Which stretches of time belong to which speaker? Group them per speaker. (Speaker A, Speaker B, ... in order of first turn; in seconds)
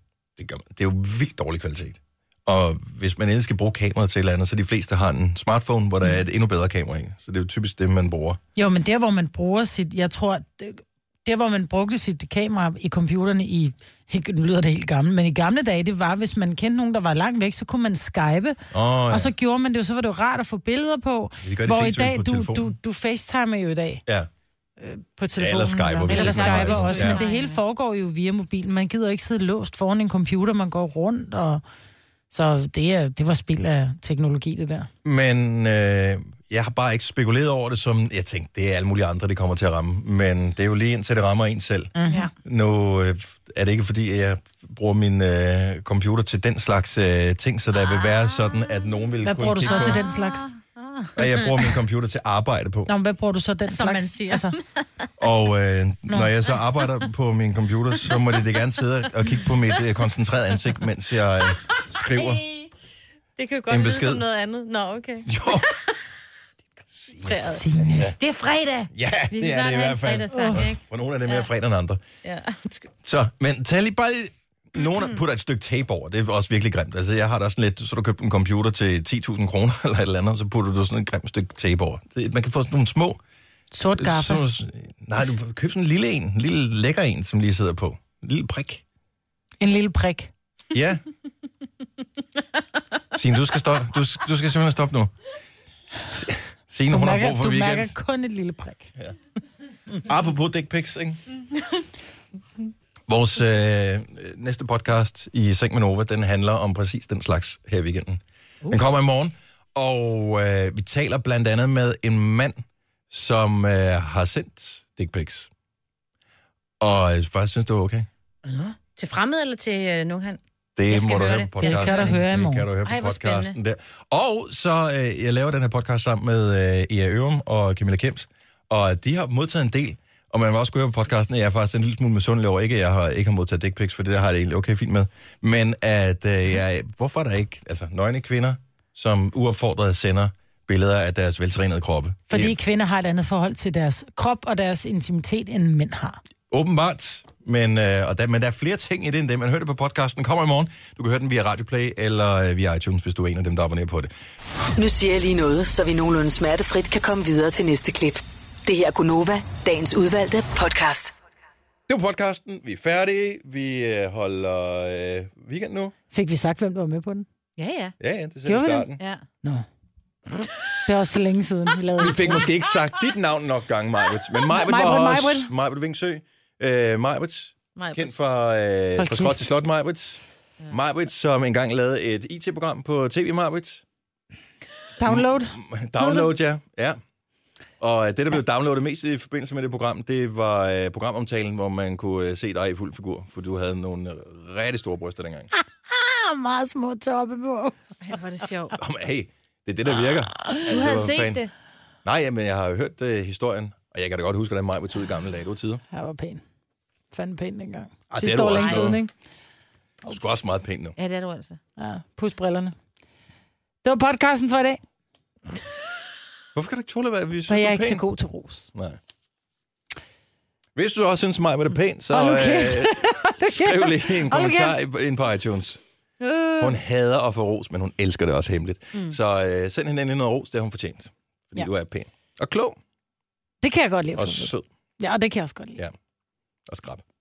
Speaker A: 0.4-8.4, 18.7-19.3, 21.4-22.7, 25.4-27.2, 35.0-41.9, 42.4-50.0, 51.1-52.9, 55.2-62.4, 63.7-64.2, 65.2-65.7, 68.9-72.0, 73.0-83.2, 84.0-88.8, 90.7-91.0, 93.1-95.1, 96.1-97.9, 100.0-101.2, 103.1-115.5, 116.8-118.1, 120.8-142.5, 146.5-154.1, 161.9-165.9, 168.0-169.0, 172.0-183.8, 185.0-187.0, 187.8-195.5, 198.7-201.4, 202.0-205.8, 208.1-209.0, 210.0-210.9, 216.5-218.0, 218.7-219.0, 220.7-225.8, 226.6-232.8, 234.2-234.6, 236.7-237.0
Speaker B: 8.5-18.6, 19.1-24.0, 24.8-31.6, 32.3-34.9, 42.0-42.3, 49.2-50.5, 52.9-54.5, 67.4-68.0, 70.3-70.7, 83.7-84.4, 89.6-90.3, 96.9-98.9, 121.6-122.7, 142.3-146.2, 166.1-167.3, 168.4-169.7, 170.4-172.5, 174.5-175.5, 179.0-179.5, 185.0-186.3, 195.5-197.8, 205.9-206.4, 207.1-209.1, 211.8-212.7, 213.8-214.8, 217.5-218.7, 222.1-224.8, 226.2-226.7, 233.6-235.8
Speaker C: 26.1-27.6, 47.8-48.9, 49.6-51.7, 53.6-55.1, 62.0-62.7, 63.4-66.0, 67.0-71.5, 72.2-72.8, 118.4-122.2, 122.8-123.5, 167.6-167.9, 169.0-169.2, 177.8-178.1, 198.1-198.8, 200.6-201.5, 208.6-208.9, 211.0-211.6
Speaker D: 154.8-161.1